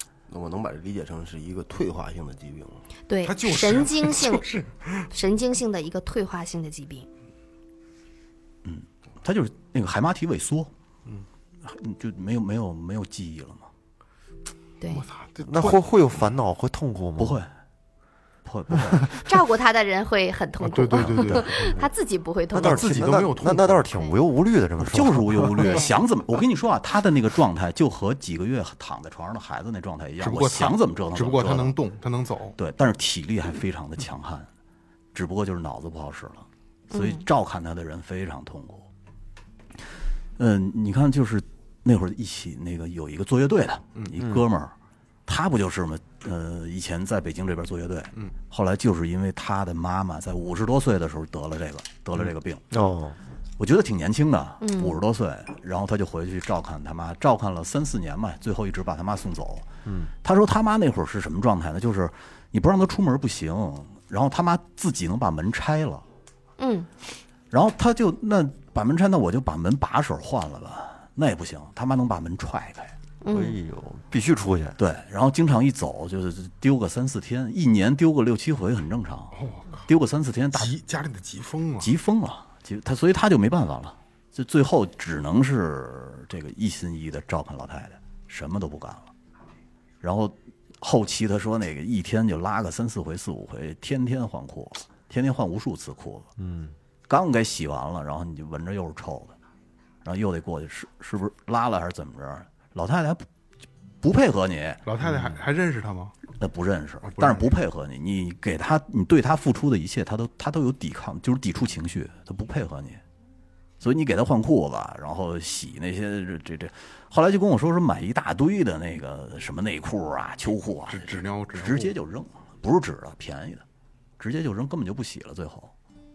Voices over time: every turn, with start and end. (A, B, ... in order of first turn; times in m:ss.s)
0:00.3-0:02.8 A
0:03.1-0:04.5 B
0:03.2-0:05.1 C
0:05.1-0:07.1 B
0:08.6-0:10.7 D
0:11.6-0:13.7 D
0:14.8-0:15.1 B
0:14.9-0:15.8 C
0:15.4-0:17.4 E
0:17.2-0:17.5 D
0:18.4-0:19.2 D
0:19.2-0:23.0 B
0:20.6-0:21.8 C
0:22.5-0:25.8 E
0:22.6-0:23.8 C
0:24.8-0:31.8 D
0:25.6-0:26.0 B
0:30.2-0:32.6 C
0:32.6-0:34.5 D
0:35.1-0:38.9 D
0:36.9-0:37.2 B
0:40.4-0:44.7 D
0:44.2-0:44.5 E
0:45.3-0:52.6 D
0:52.7-0:53.2 E
0:53.6-0:59.7 D
0:54.6-0:55.0 B
0:59.9-1:00.1 E
1:00.2-1:06.0 D
1:06.6-1:06.9 B
1:07.5-1:13.0 D
1:13.2-1:13.6 B
1:13.3-1:14.8 E
1:14.8-1:20.8 D
1:19.3-1:19.9 C
1:20.6-1:21.9 C
1:21.8-1:29.1 D
1:30.0-1:36.3 D
1:36.4-1:36.8 E
1:37.1-1:39.4 D
1:40.0-1:43.3 D
1:44.0-1:44.8 D
1:44.8-1:46.1 C
1:46.4-1:53.0 D
1:47.0-1:47.5 C
1:53.8-2:03.6 D
2:00.9-2:01.9 C
2:04.2-2:05.7 D